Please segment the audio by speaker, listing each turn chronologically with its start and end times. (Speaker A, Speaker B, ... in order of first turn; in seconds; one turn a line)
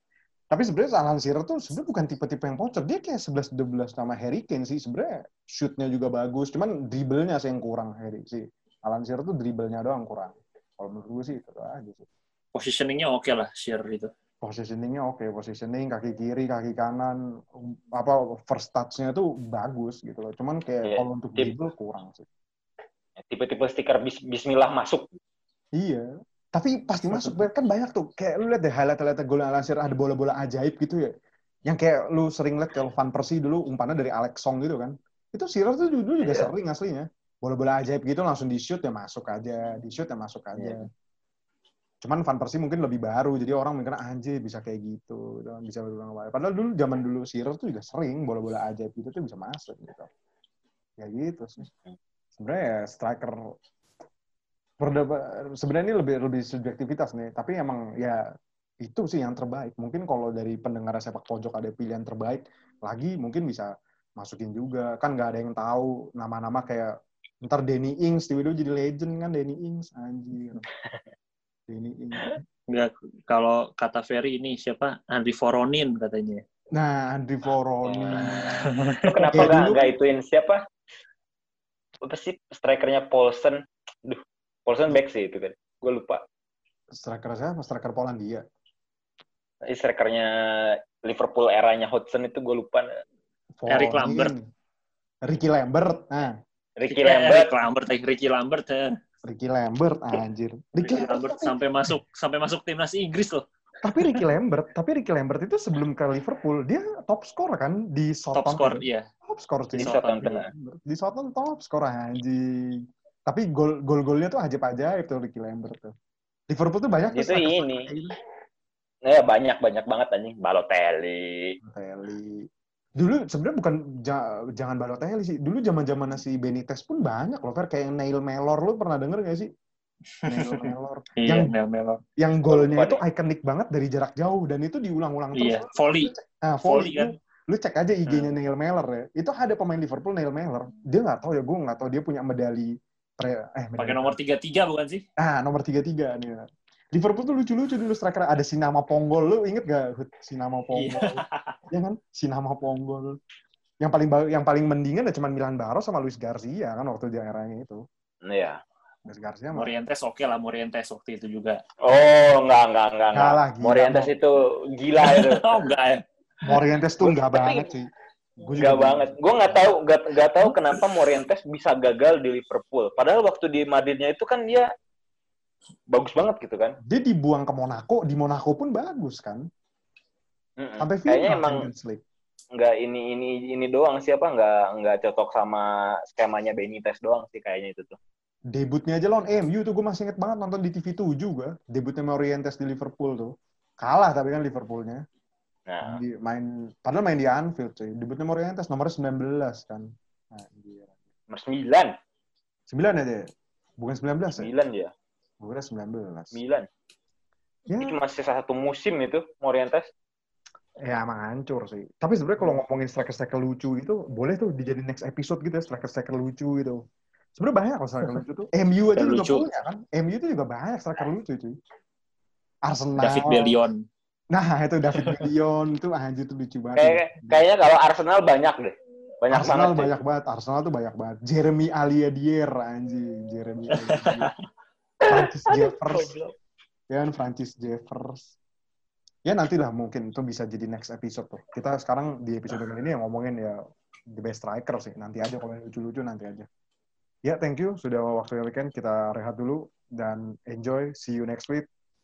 Speaker A: 0.5-12.1
Speaker B: 12.5-14.1
Speaker A: 14.4-22.2
Speaker C: 20.8-21.5
Speaker C: 23.2-25.2
Speaker A: 25.8-31.1
Speaker A: 31.6-40.9
Speaker C: 36.2-36.5
Speaker C: 40.5-40.9
Speaker A: 42.0-50.1
Speaker A: 51.0-51.7
Speaker A: 52.4-53.5
Speaker A: 54.8-58.2
Speaker A: 58.8-70.7
Speaker A: 71.7-72.4
Speaker B: 72.7-76.4
Speaker A: 76.7-78.7
Speaker C: 77.8-78.3
Speaker B: 78.5-79.5
Speaker C: 79.0-80.6
Speaker A: 79.3-79.8
Speaker C: 82.0-86.2
Speaker A: 86.9-88.4
Speaker C: 89.7-92.9
Speaker A: 93.6-94.5
Speaker B: 93.7-94.3
Speaker A: 95.2-96.3
Speaker C: 96.8-97.5
Speaker B: 96.9-99.0
Speaker A: 99.2-101.6
Speaker B: 100.8-103.4
Speaker A: 103.8-115.9
Speaker B: 108.3-109.1
Speaker B: 109.7-110.4
Speaker C: 109.8-110.5
Speaker A: 116.5-118.1
Speaker C: 117.1-117.9
Speaker C: 119.0-121.6
Speaker A: 121.6-122.5
Speaker A: 123.0-129.5
Speaker B: 130.2-132.0
Speaker A: 130.2-131.5
Speaker A: 132.2-144.2
Speaker C: 132.5-133.0
Speaker B: 135.3-136.1
Speaker B: 136.6-137.1
Speaker B: 143.8-145.0
Speaker A: 145.2-153.2
Speaker B: 150.7-151.6
Speaker A: 153.8-157.8
Speaker C: 158.2-158.6
Speaker A: 159.1-159.7
Speaker B: 159.5-161.6
Speaker C: 161.8-165.8
Speaker A: 163.1-164.1
Speaker B: 165.0-166.6
Speaker A: 166.4-169.6
Speaker C: 167.0-167.7
Speaker C: 168.6-174.7
Speaker C: 175.9-176.8
Speaker A: 176.8-179.5
Speaker C: 180.6-181.7
Speaker A: 180.8-182.0
Speaker C: 182.5-188.0
Speaker A: 188.5-195.0
Speaker C: 195.7-196.0
Speaker A: 195.8-201.0
Speaker C: 201.3-201.9
Speaker A: 202.7-204.5
Speaker C: 204.4-204.9
Speaker A: 205.4-206.4
Speaker C: 206.3-206.7
Speaker A: 207.7-208.0
Speaker C: 207.8-209.9
Speaker A: 210.8-216.8
Speaker A: 217.4-221.6
Speaker B: 218.9-219.4
Speaker A: 222.6-223.6
Speaker B: 223.0-223.8
Speaker A: 224.3-227.4
Speaker B: 225.0-225.2
Speaker C: 226.8-229.9
Speaker A: 229.3-234.3
Speaker B: 234.0-234.3
Speaker A: 235.1-236.1
Speaker C: 235.6-236.3
Speaker A: 236.9-238.3
Speaker A: 239.2-243.6
Speaker A: 244.1-246.5
Speaker A: 247.2-251.7